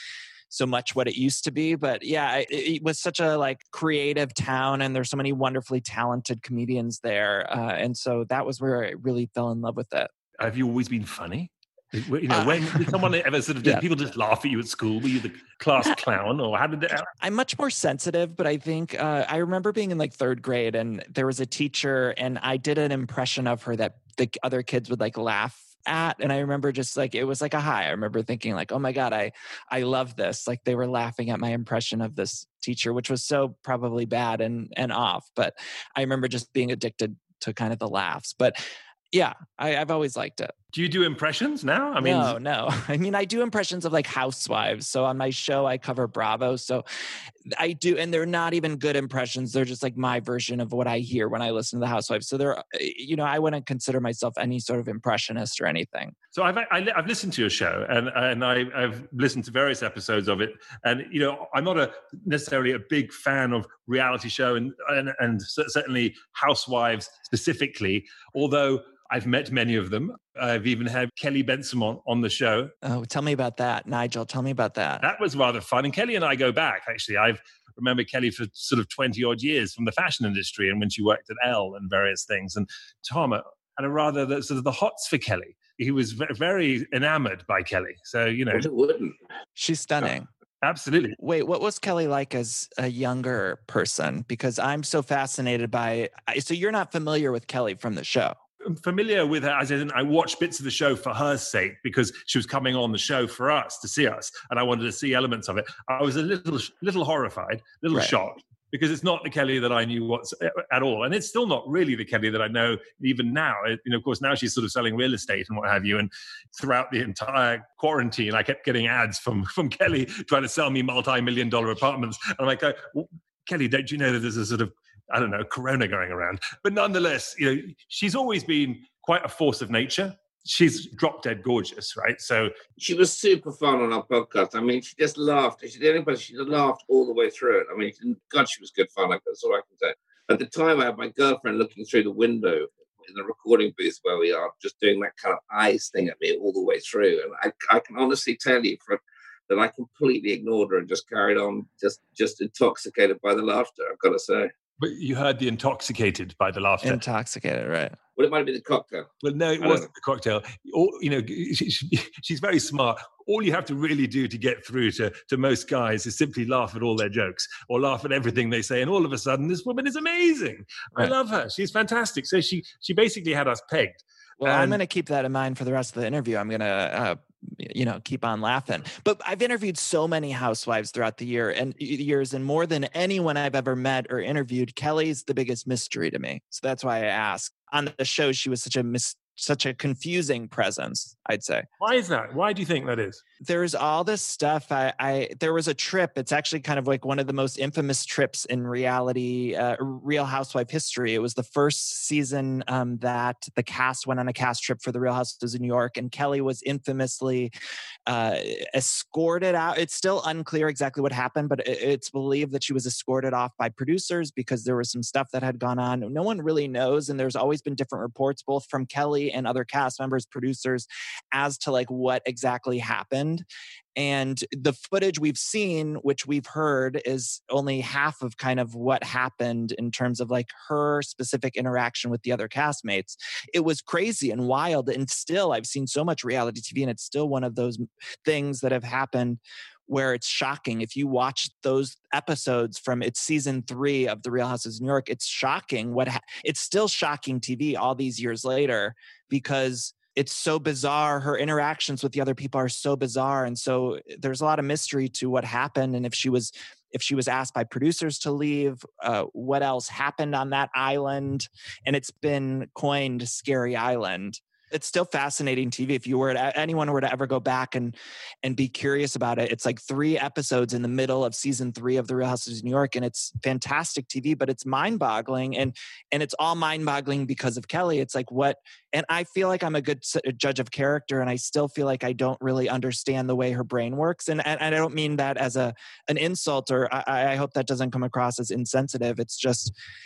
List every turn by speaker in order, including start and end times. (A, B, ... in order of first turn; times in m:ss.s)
0:00.5-0:10.1 A
0:10.4-0:17.1 B
0:12.3-0:13.0 A
0:17.2-0:38.6 A
0:39.1-0:40.5 A
0:40.7-0:42.4 B
0:42.0-0:46.8 A
0:47.5-0:56.2 A
0:56.3-1:12.7 B
1:12.8-1:15.0 A
1:15.0-1:28.7 B
1:28.5-1:29.2 C
1:29.6-1:30.3 A
1:30.6-1:31.2 B
1:31.2-1:38.4 A
1:38.6-2:12.5 B
2:12.8-2:34.5 C
2:34.8-2:37.0 B
2:36.8-2:38.0 A
2:38.2-2:39.1 C
2:39.2-2:54.8 B
2:39.6-2:39.9 C
2:54.4-3:11.6 A
3:11.8-3:13.2 B
3:13.4-3:27.5 A
3:28.1-4:49.7 A